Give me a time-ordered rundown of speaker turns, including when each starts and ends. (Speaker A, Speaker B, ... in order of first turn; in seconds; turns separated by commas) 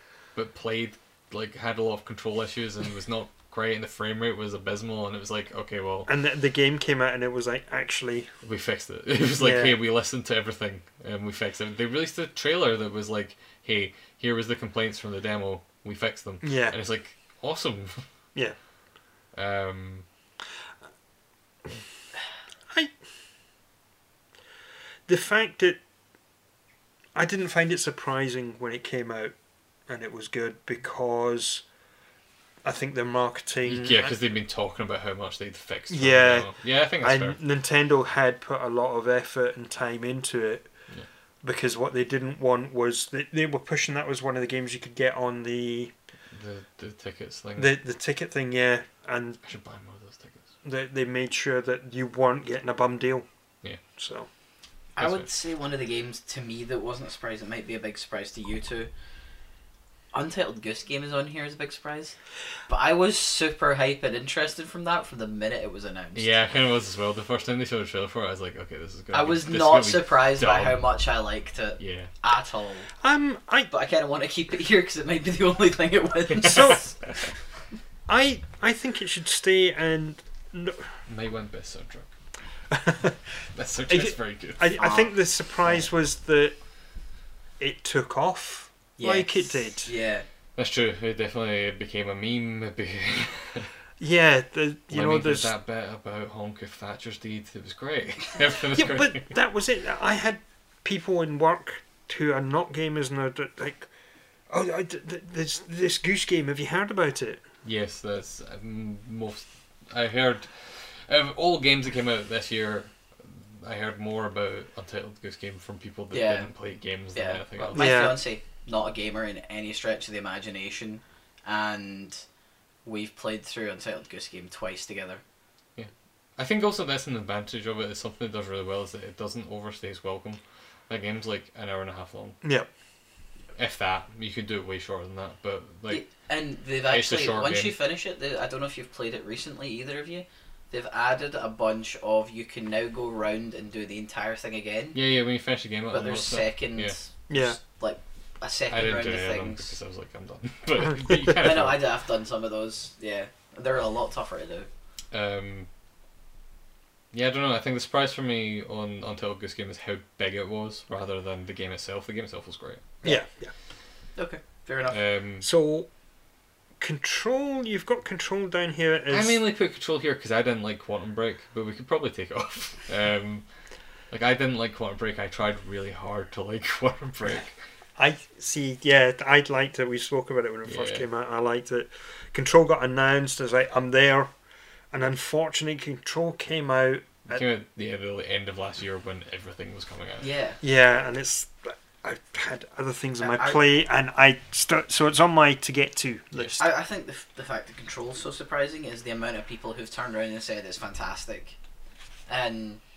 Speaker A: 0.3-6.1, Speaker B: 6.1-8.3, Speaker A: 8.4-18.1, Speaker B: 9.4-9.8, Speaker B: 16.4-16.8, Speaker A: 19.3-20.1, Speaker B: 25.1-25.8, Speaker B: 27.1-29.3, Speaker B: 29.9-31.6, Speaker B: 32.6-34.1, Speaker A: 33.6-37.4, Speaker B: 35.9-40.7, Speaker B: 41.4-45.9, Speaker A: 46.3-47.8, Speaker B: 47.6-49.4, Speaker A: 49.4-50.5, Speaker B: 50.6-53.2, Speaker B: 53.9-54.3, Speaker C: 55.0-58.9, Speaker A: 55.0-55.3, Speaker C: 60.1-62.1, Speaker C: 62.7-66.3, Speaker A: 66.1-70.8, Speaker C: 69.1-72.9, Speaker A: 71.8-72.1, Speaker B: 73.0-73.7, Speaker C: 73.7-76.9, Speaker A: 76.3-77.2, Speaker B: 76.4-76.9, Speaker B: 78.1-80.9, Speaker A: 81.1-82.1, Speaker B: 82.7-83.2, Speaker A: 83.5-84.8, Speaker B: 83.9-86.5, Speaker C: 84.8-85.8, Speaker B: 87.6-89.9, Speaker C: 89.0-90.2, Speaker A: 90.5-93.7, Speaker B: 94.0-95.5, Speaker A: 94.9-99.3, Speaker B: 98.8-103.9, Speaker B: 104.5-107.4, Speaker A: 107.6-118.1, Speaker C: 116.1-116.5, Speaker C: 117.1-122.2, Speaker B: 117.7-118.2, Speaker C: 122.8-125.2, Speaker A: 125.8-132.4, Speaker B: 132.4-132.7, Speaker A: 133.5-136.0, Speaker C: 135.9-145.0, Speaker A: 136.9-137.8, Speaker A: 144.9-146.9, Speaker C: 145.9-149.7, Speaker B: 147.3-147.6, Speaker A: 148.7-151.8, Speaker C: 151.4-154.7, Speaker A: 155.1-155.7, Speaker A: 157.1-162.9, Speaker B: 163.0-163.5, Speaker C: 164.2-165.0, Speaker A: 164.9-165.5, Speaker B: 165.4-165.9, Speaker B: 166.8-169.4, Speaker A: 169.1-173.5, Speaker A: 174.1-177.6, Speaker B: 178.0-184.3, Speaker A: 180.7-181.1, Speaker B: 184.9-187.4, Speaker A: 187.3-190.3, Speaker C: 190.2-190.6, Speaker B: 190.6-196.6, Speaker C: 193.2-193.6, Speaker A: 196.3-196.6, Speaker C: 196.6-201.5, Speaker C: 202.3-202.8